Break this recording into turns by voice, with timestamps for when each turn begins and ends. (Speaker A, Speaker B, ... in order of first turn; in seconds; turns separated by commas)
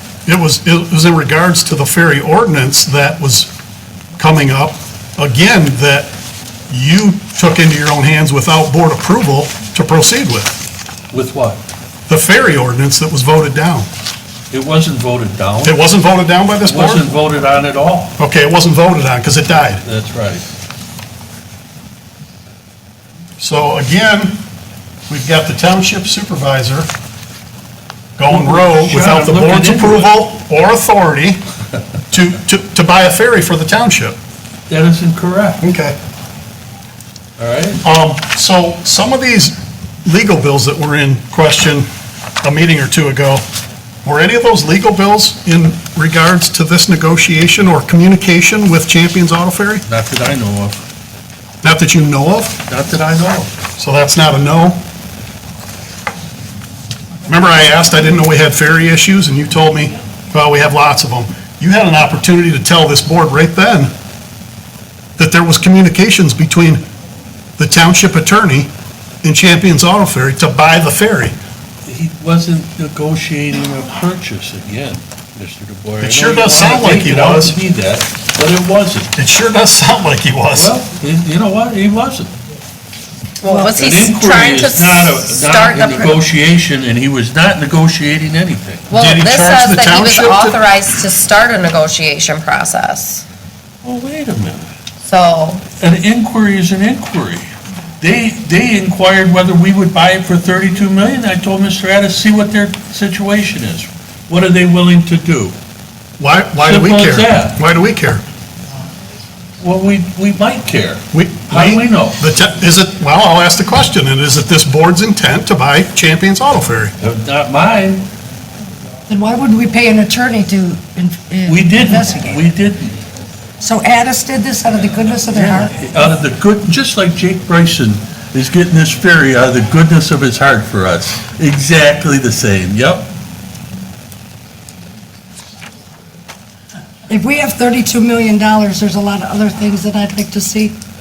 Speaker A: 0.2-3.5, Speaker A: 4.2-6.1, Speaker A: 6.7-10.6, Speaker B: 11.1-11.6, Speaker A: 12.1-13.9, Speaker B: 14.5-15.8, Speaker A: 15.6-17.1, Speaker B: 16.6-18.1, Speaker A: 18.2-19.8, Speaker B: 19.8-20.5, Speaker A: 23.4-24.4, Speaker A: 25.1-26.9, Speaker A: 28.2-31.4, Speaker B: 28.3-30.2, Speaker A: 32.1-34.1, Speaker B: 34.7-35.6, Speaker A: 35.6-35.9, Speaker B: 37.4-37.8, Speaker A: 37.8-41.9, Speaker A: 42.4-43.4, Speaker A: 44.0-49.8, Speaker B: 49.9-50.8, Speaker A: 51.6-52.6, Speaker B: 52.7-53.5, Speaker A: 53.8-54.8, Speaker A: 57.3-63.9, Speaker A: 65.2-66.8, Speaker A: 67.6-68.7, Speaker A: 69.2-71.3, Speaker B: 71.8-79.1, Speaker A: 76.0-77.5, Speaker A: 79.2-80.7, Speaker B: 80.5-82.3, Speaker C: 83.4-86.2, Speaker D: 83.4-83.7, Speaker B: 83.7-88.9, Speaker C: 88.9-93.2, Speaker A: 88.9-90.6, Speaker B: 93.8-94.7, Speaker C: 95.0-95.6, Speaker B: 95.8-97.5, Speaker B: 98.0-105.5, Speaker A: 106.2-108.2, Speaker B: 106.6-107.6, Speaker B: 109.6-112.2, Speaker A: 111.1-116.9, Speaker B: 117.0-118.1, Speaker D: 119.1-122.4, Speaker B: 121.5-123.0, Speaker D: 123.6-125.7, Speaker B: 125.3-133.1, Speaker D: 137.1-140.7